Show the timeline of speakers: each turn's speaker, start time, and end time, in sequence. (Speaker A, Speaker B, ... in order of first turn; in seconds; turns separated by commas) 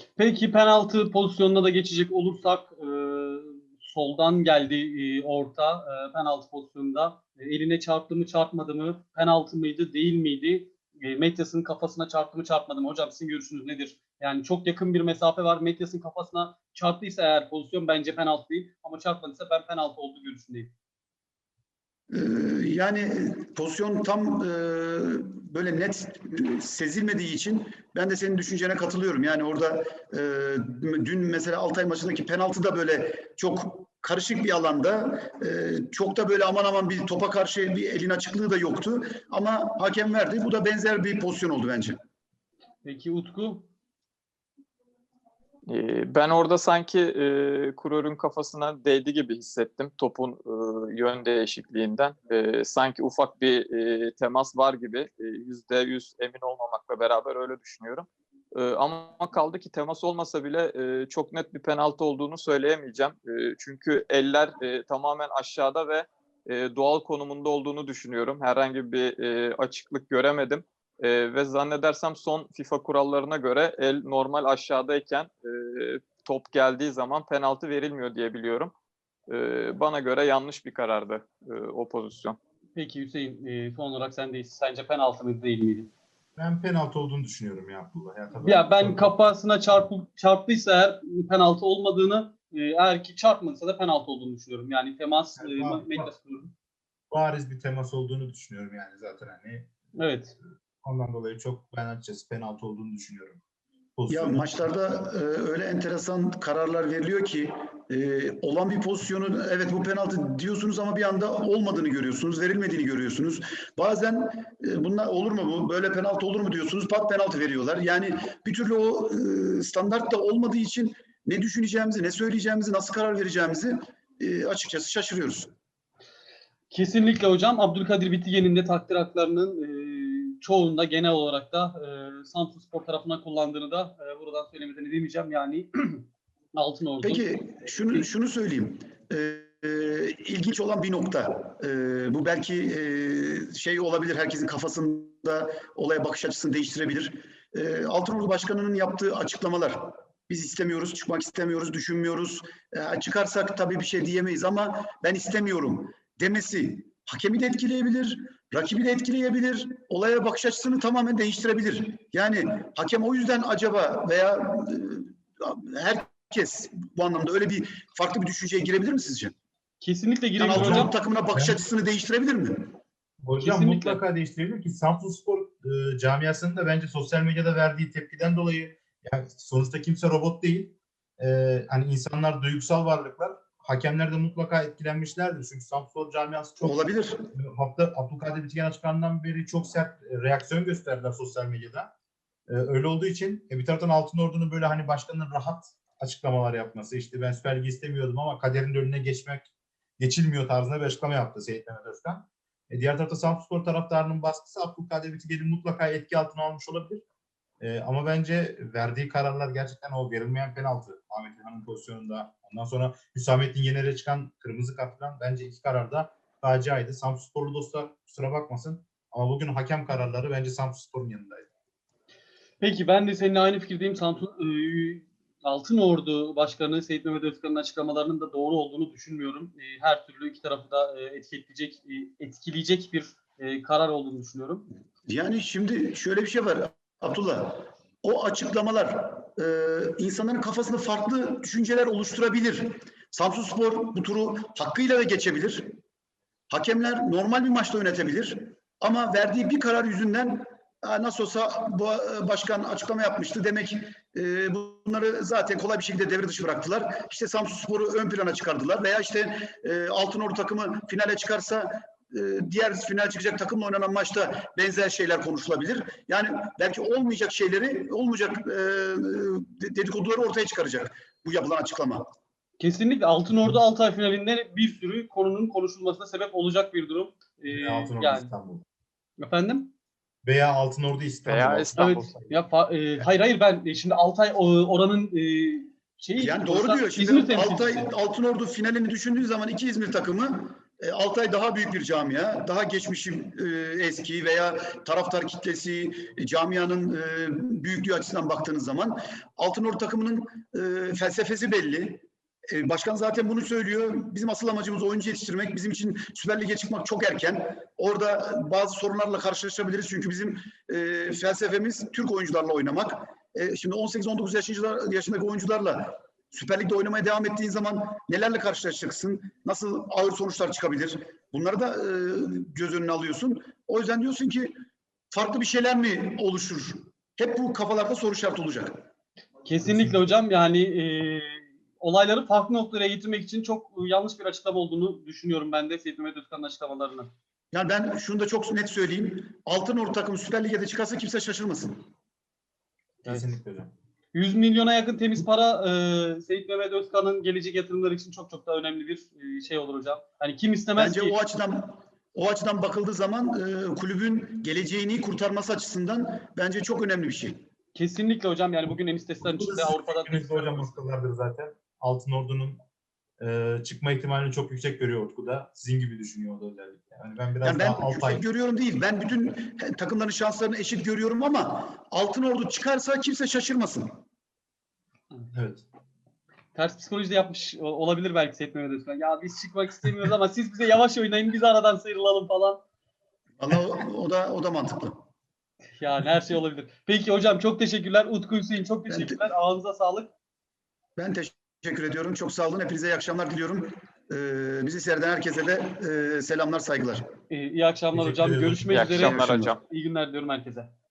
Speaker A: 0.1-20.7, Speaker B: 22.1-42.0, Speaker A: 42.8-43.7, Speaker C: 45.6-78.7, Speaker C: 79.3-82.4, Speaker A: 82.8-85.9, Speaker D: 86.3-89.1, Speaker A: 88.4-96.5, Speaker D: 95.4-96.1, Speaker D: 97.1-99.7, Speaker A: 99.9-100.3, Speaker D: 100.8-103.4, Speaker D: 104.0-104.5, Speaker B: 104.1-125.5, Speaker A: 126.7-137.2, Speaker B: 137.0-169.3, Speaker A: 169.8-170.9, Speaker B: 170.4-172.8, Speaker D: 170.5-171.6, Speaker D: 173.2-191.9, Speaker A: 173.4-174.0, Speaker B: 186.6-187.3, Speaker D: 192.5-207.0, Speaker D: 207.6-221.5, Speaker A: 222.6-234.7, Speaker B: 235.1-245.8, Speaker B: 246.5-272.1, Speaker A: 272.6-278.3, Speaker D: 277.5-278.6, Speaker A: 279.2-279.7, Speaker D: 280.2-281.9, Speaker C: 281.2-282.2, Speaker A: 281.8-287.9, Speaker B: 286.2-324.6, Speaker B: 325.1-328.9, Speaker A: 329.4-337.1, Speaker D: 329.6-330.1, Speaker B: 337.5-341.8, Speaker D: 343.0-343.7, Speaker A: 343.1-343.3, Speaker A: 344.1-351.2, Speaker B: 350.8-357.4, Speaker A: 357.7-360.7, Speaker D: 359.2-362.6, Speaker D: 363.2-368.2, Speaker B: 367.4-374.0, Speaker D: 375.3-375.6, Speaker A: 376.5-382.6, Speaker B: 383.4-385.0, Speaker A: 385.8-390.1, Speaker B: 388.9-389.2, Speaker B: 391.0-397.1, Speaker A: 397.3-400.7, Speaker D: 397.9-399.5, Speaker C: 398.7-399.6